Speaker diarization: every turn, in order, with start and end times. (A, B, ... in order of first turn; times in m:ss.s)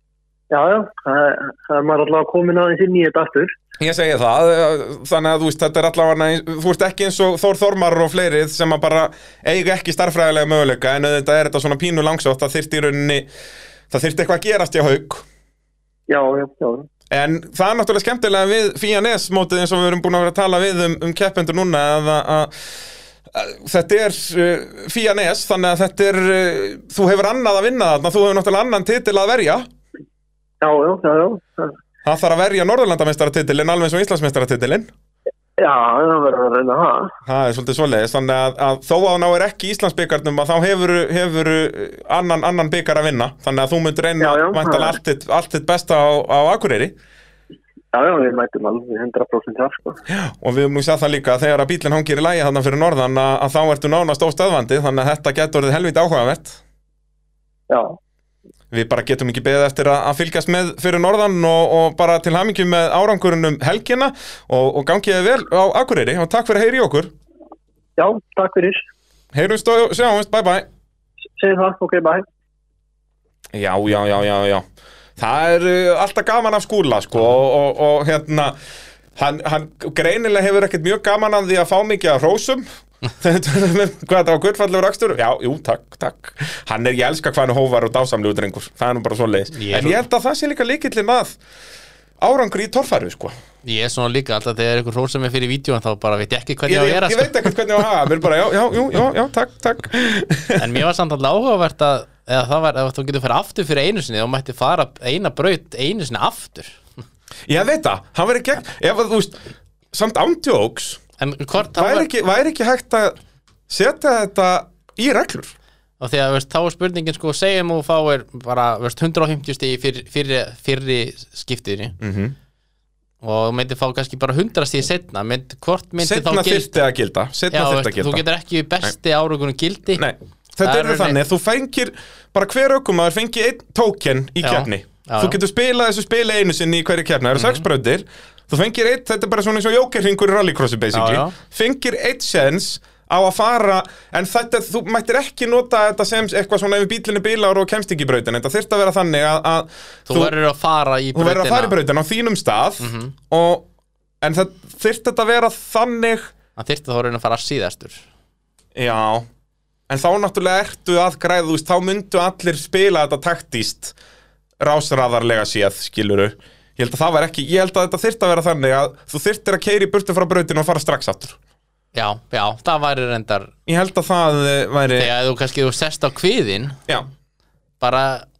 0:00.5-0:03.5 A
0:03.8-0:13.3 B
0:13.9-0:15.2 B
0:16.1-0:16.9 A
0:17.1-0:22.5 B
0:23.3-0:29.7 B
0:30.6-0:31.8 A
0:32.0-0:34.9 B
0:35.6-0:37.1 A
0:37.2-0:46.9 B
0:44.2-0:45.0 A
0:47.9-0:50.0 A
0:50.1-0:56.6 B
0:57.7-0:58.0 A
0:58.7-1:07.1 B
1:08.0-1:08.8 A
1:09.3-1:10.6 B
1:11.4-1:12.2 A
1:13.5-1:14.6 B
1:15.2-1:18.5 B
1:19.2-1:22.6 B
1:23.2-1:31.4 B
1:29.5-1:30.0 C
1:32.2-1:33.3 B
1:33.6-1:37.5 C
1:36.7-1:40.7 B
1:40.6-1:46.8 C
1:47.5-1:49.4 B
1:49.9-1:51.0 B
1:51.2-1:52.1 C
1:51.8-1:53.2 B
1:53.7-1:55.5 B
1:56.0-2:02.0 C
2:02.0-2:02.3 B
2:03.2-2:06.8 C
2:06.0-2:08.2 B
2:07.5-2:10.0 C
2:10.0-2:30.3 B
2:10.6-2:11.2 C
2:14.4-2:15.4 C
2:17.4-2:17.6 C
2:20.9-2:21.4 C
2:30.1-2:31.8 C
2:31.1-2:33.6 B
2:32.8-2:33.1 C
2:34.2-2:36.3 B
2:36.6-2:38.0 C
2:38.7-2:39.2 B
2:39.9-2:43.9 B
2:44.6-2:51.4 B
2:51.9-2:53.5 C
2:53.7-2:55.1 B
2:55.0-2:56.8 C
2:57.8-2:58.2 C